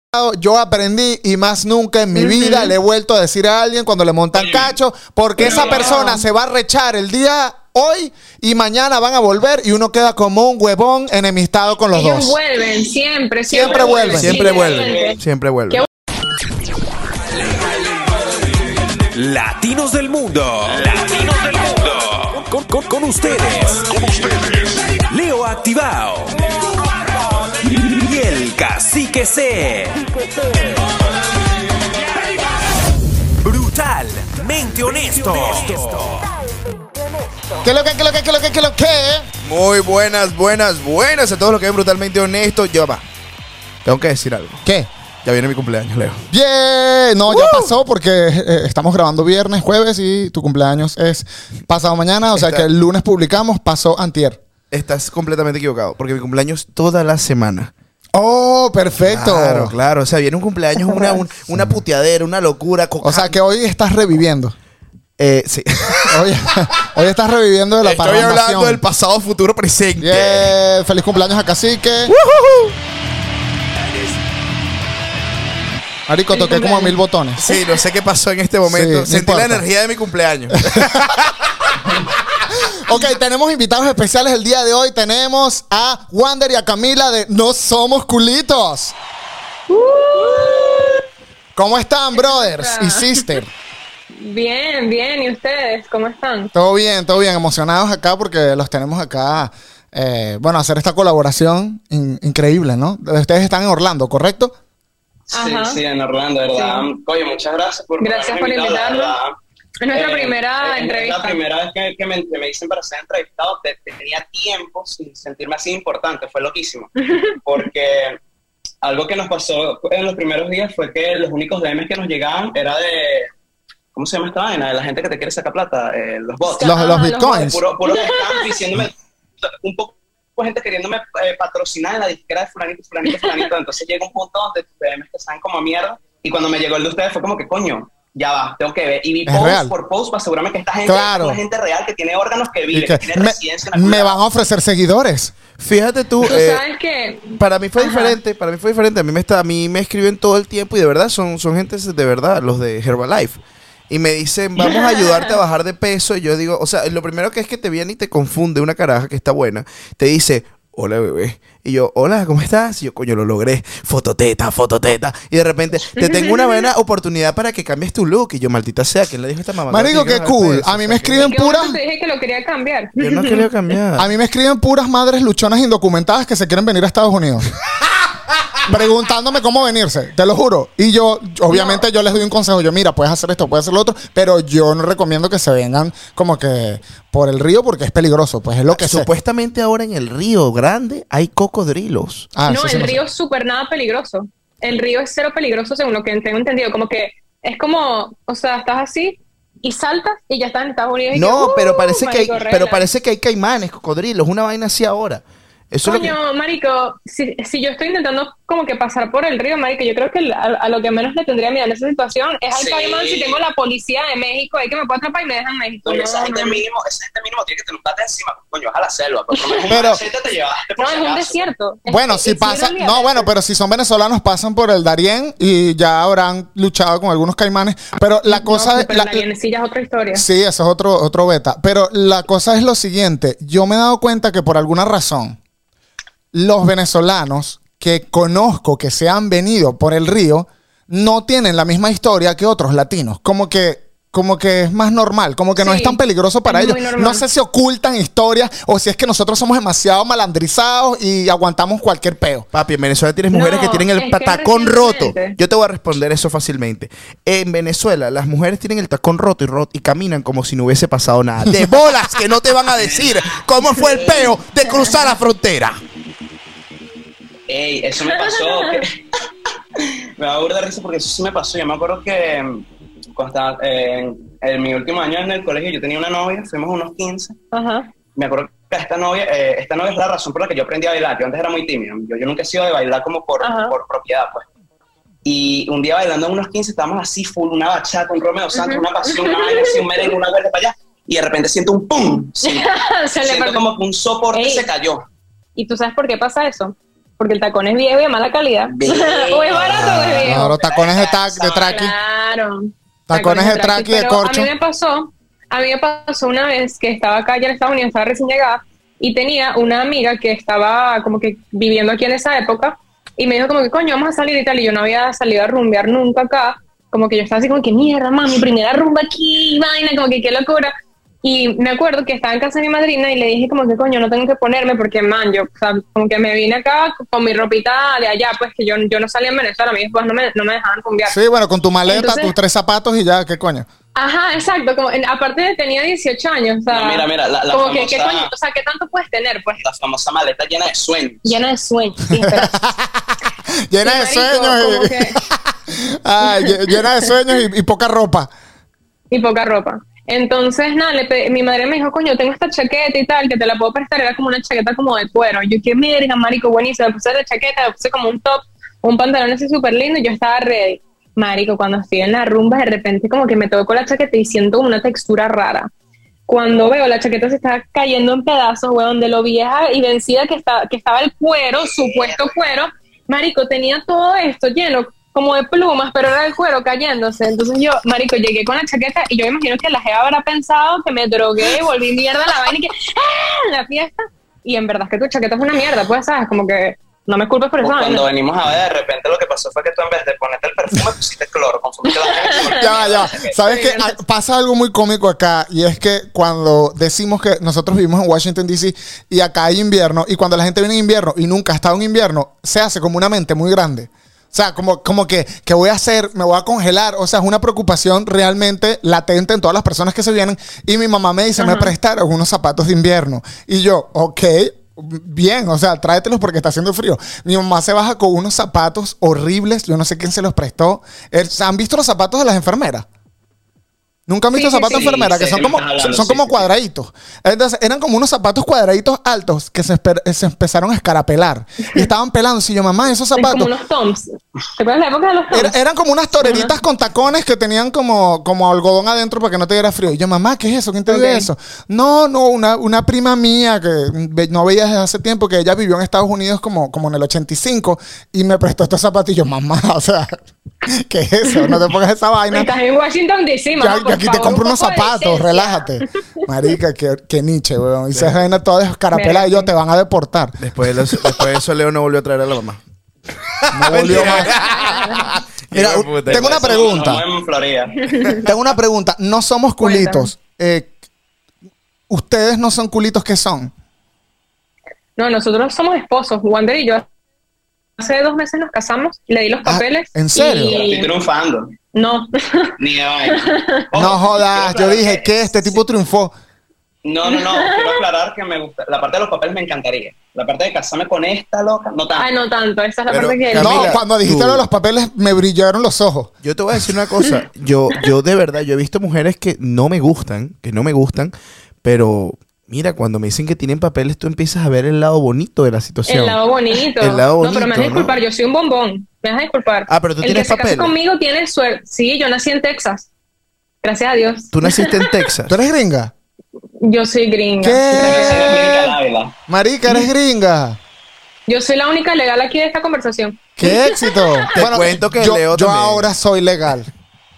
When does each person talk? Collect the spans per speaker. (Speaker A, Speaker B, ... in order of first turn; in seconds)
Speaker A: 0.1-12.4, 13.5-14.4, 37.6-39.3, 46.3-54.4, 58.1-59.8, 60.9-61.8, 63.0-64.5, 66.1-68.8, 70.0-72.2, 76.1-77.5, 78.6-79.7, 80.6-81.2, 82.5-89.0, 91.5-93.5, 96.5-104.5, 126.6-127.6, 139.3-139.7, 140.9-141.4, 142.7-145.3, 169.7-171.8, 174.0-177.5, 178.7-189.1, 192.3-193.0, 219.7-220.0, 221.9-229.3, 230.1-235.4, 236.3-252.5, 299.9-301.9, 303.1-304.5, 331.1-333.7, 342.1-343.1, 343.7-348.3, 392.5-422.9, 424.1-433.5, 435.3-452.5, 453.6-460.7, 463.5-464.4, 465.5-467.0, 468.3-470.7, 471.9-473.5, 479.4-480.6, 483.7-486.1, 493.3-496.1, 515.3-515.9, 517.4-518.4, 519.3-520.6, 523.4-526.7
Speaker B: 2.1-2.7, 5.4-6.2, 11.9-15.2, 76.3-77.0, 89.7-91.0, 92.2-93.3, 94.2-96.5, 105.3-105.8, 106.5-106.8, 108.0-109.2, 109.8-111.4, 117.0-117.4, 126.5-128.6, 133.1-133.5, 146.2-148.2, 154.6-155.2, 166.0-166.7, 171.2-173.5, 181.5-181.9, 192.5-202.8, 205.8-216.6, 219.3-219.7, 220.8-223.3, 228.3-230.3, 245.6-247.2, 253.3-255.4, 268.1-268.9, 277.5-277.9, 283.4-283.8, 288.5-289.8, 292.4-293.6, 294.3-294.7, 295.6-300.6, 301.7-331.2, 331.9-332.3, 333.9-339.6, 341.2-342.6, 343.8-345.2, 346.2-347.1, 349.1-365.7, 366.3-388.1, 392.1-392.6, 393.4-394.0, 411.4-411.7, 424.3-424.9, 433.2-435.6, 436.2-436.5, 440.9-441.3, 451.3-451.6, 452.3-455.7, 458.9-459.5, 463.8-465.1, 467.9-468.2, 469.6-470.1, 475.0-476.9, 477.8-480.9, 481.7-482.6, 483.1-483.6, 487.1-487.8, 492.0-493.8, 505.9-512.9, 513.6-515.0, 516.6-518.8, 521.3-524.2
Speaker C: 4.3-4.8, 5.4-6.1, 13.6-15.2, 105.3-109.3, 109.9-116.9, 117.5-118.2, 118.8-123.3, 124.0-144.2, 212.5-213.4, 215.8-221.5, 262.8-264.3, 267.5-269.0, 269.8-272.6, 273.2-277.4, 278.2-284.4, 285.2-292.7, 293.2-295.1, 298.7-301.8, 336.7-338.3, 339.6-341.4, 371.6-372.4, 387.6-393.4, 424.7-426.4, 466.1-468.3, 480.5-481.5, 482.6-485.6, 486.8-492.1, 517.8-519.1
Speaker D: 14.2-15.8, 39.4-43.0, 43.9-44.6, 45.2-46.2, 47.3-47.7, 52.4-52.6, 54.7-57.7, 59.0-63.4, 65.2-66.3, 67.8-70.5, 72.1-72.7, 77.4-81.7, 145.6-146.6, 147.4-171.3, 173.0-174.1, 188.7-192.3, 201.1-206.2, 252.5-265.8, 460.4-462.6, 463.3-466.3, 492.9-494.5, 496.2-508.0, 509.7-510.7, 514.3-515.4, 524.4-525.9
Speaker E: 19.1-24.3, 25.1-26.5, 27.9-30.1, 33.4-36.3